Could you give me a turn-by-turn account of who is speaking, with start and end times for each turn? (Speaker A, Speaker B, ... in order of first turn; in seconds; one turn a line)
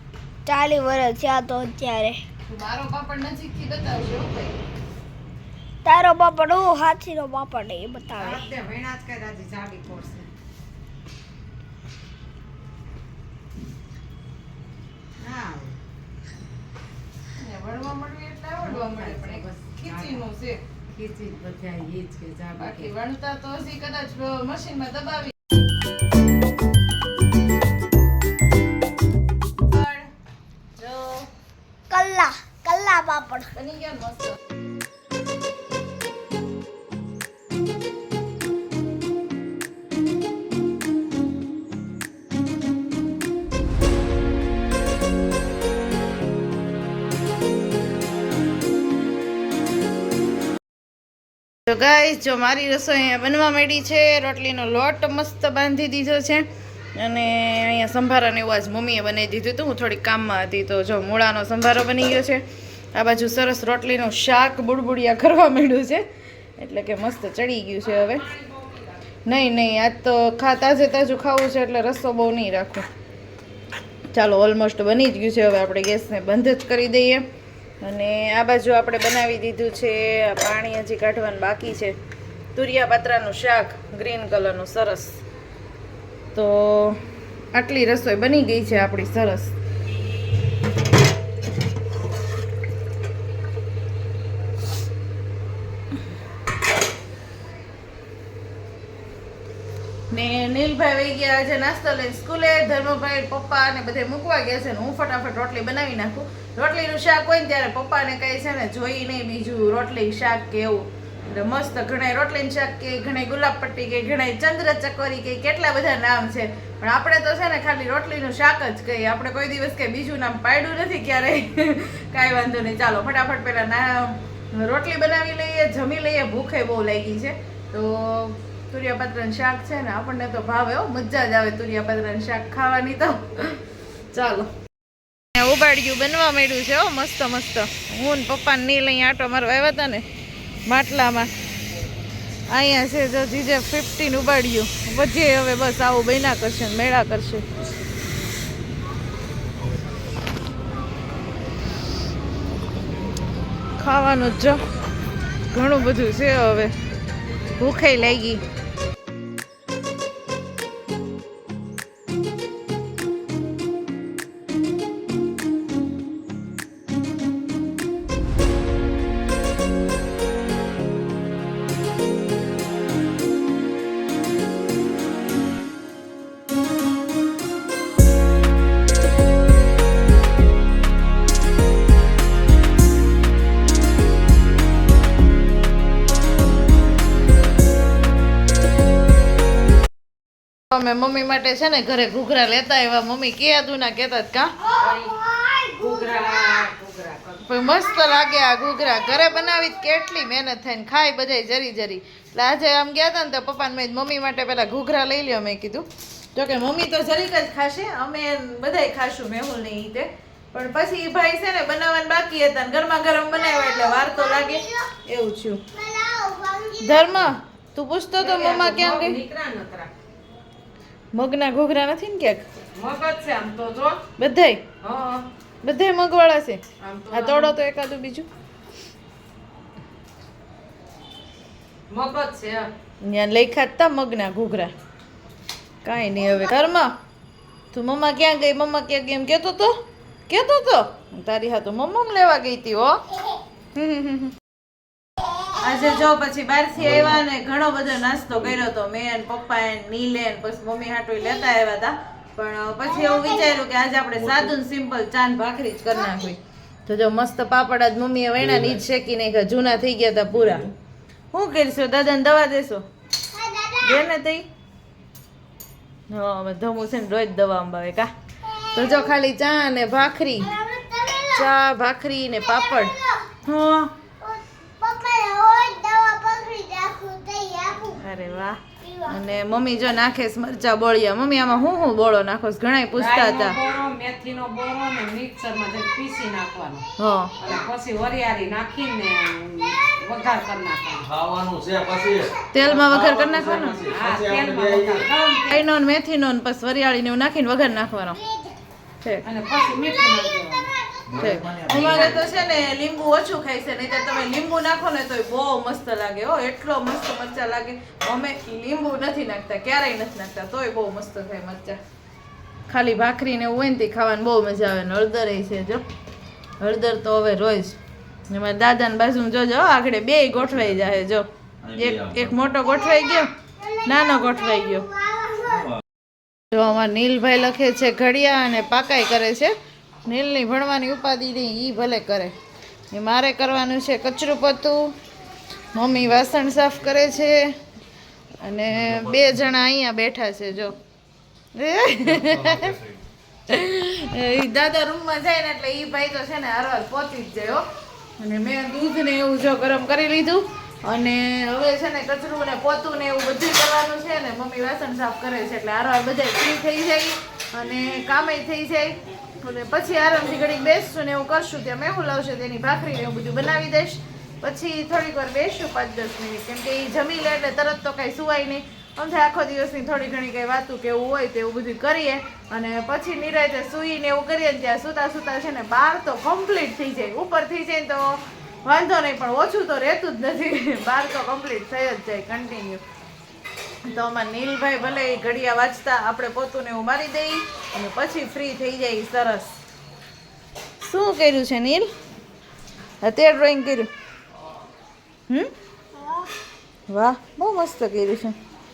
Speaker A: 0.5-2.2
Speaker B: 2.4-4.5
Speaker A: 5.8-8.4
Speaker C: 8.2-10.3
Speaker C: 15.2-15.8
Speaker B: 17.4-20.6
Speaker C: 18.6-20.2
Speaker C: 20.9-22.9
Speaker B: 22.6-25.3
Speaker B: 29.6-30.1
Speaker B: 30.8-31.3
Speaker A: 31.9-33.5
Speaker B: 33.5-34.4
Speaker B: 51.6-62.4
Speaker B: 62.9-66.0
Speaker B: 66.6-68.2
Speaker B: 69.2-72.8
Speaker B: 74.1-77.2
Speaker B: 77.8-82.0
Speaker B: 82.5-85.2
Speaker B: 86.3-87.0
Speaker B: 87.5-89.5
Speaker B: 100.1-134.5
Speaker B: 135.3-140.0
Speaker B: 140.7-141.3
Speaker B: 142.5-147.4
Speaker B: 153.8-154.6
Speaker B: 155.5-156.7
Speaker B: 157.6-158.4
Speaker B: 190.7-194.5
Speaker C: 194.7-197.4
Speaker B: 197.4-215.6
Speaker A: 213.4-214.8
Speaker A: 215.7-217.1
Speaker B: 216.8-219.2
Speaker C: 218.2-219.9
Speaker B: 221.1-222.4
Speaker C: 222.7-224.0
Speaker B: 224.2-224.6
Speaker C: 224.8-225.3
Speaker B: 225.6-228.3
Speaker C: 226.8-227.6
Speaker C: 231.9-232.7
Speaker B: 233.0-234.7
Speaker B: 235.8-236.9
Speaker B: 237.7-239.7
Speaker B: 240.3-243.0
Speaker B: 243.7-244.3
Speaker B: 245.5-260.7
Speaker D: 246.8-247.2
Speaker D: 248.3-248.6
Speaker A: 253.0-253.5
Speaker D: 254.2-254.5
Speaker D: 258.4-258.8
Speaker D: 260.4-260.7
Speaker B: 261.3-262.8
Speaker A: 263.3-264.1
Speaker B: 263.8-264.4
Speaker B: 266.1-268.1
Speaker B: 268.7-270.5
Speaker A: 270.5-271.4
Speaker B: 271.3-273.9
Speaker A: 272.5-273.3
Speaker A: 274.2-278.0
Speaker B: 277.9-283.6
Speaker C: 282.9-286.8
Speaker B: 287.0-287.3
Speaker C: 287.4-291.1
Speaker D: 291.0-295.1
Speaker B: 292.5-293.9
Speaker C: 293.3-295.6
Speaker B: 295.5-298.2
Speaker C: 299.2-300.7
Speaker D: 301.1-302.5
Speaker B: 301.2-311.8
Speaker B: 312.7-315.8
Speaker B: 316.6-317.8
Speaker B: 318.3-324.9
Speaker D: 321.6-322.5
Speaker A: 324.1-325.7
Speaker D: 325.4-325.8
Speaker B: 326.5-332.3
Speaker B: 332.9-334.9
Speaker B: 335.7-337.5
Speaker B: 338.4-340.8
Speaker B: 341.5-342.8
Speaker B: 343.5-347.6
Speaker B: 348.2-382.8
Speaker B: 383.8-389.5
Speaker B: 390.8-391.9
Speaker B: 393.0-393.9
Speaker A: 396.0-396.3
Speaker B: 396.9-398.4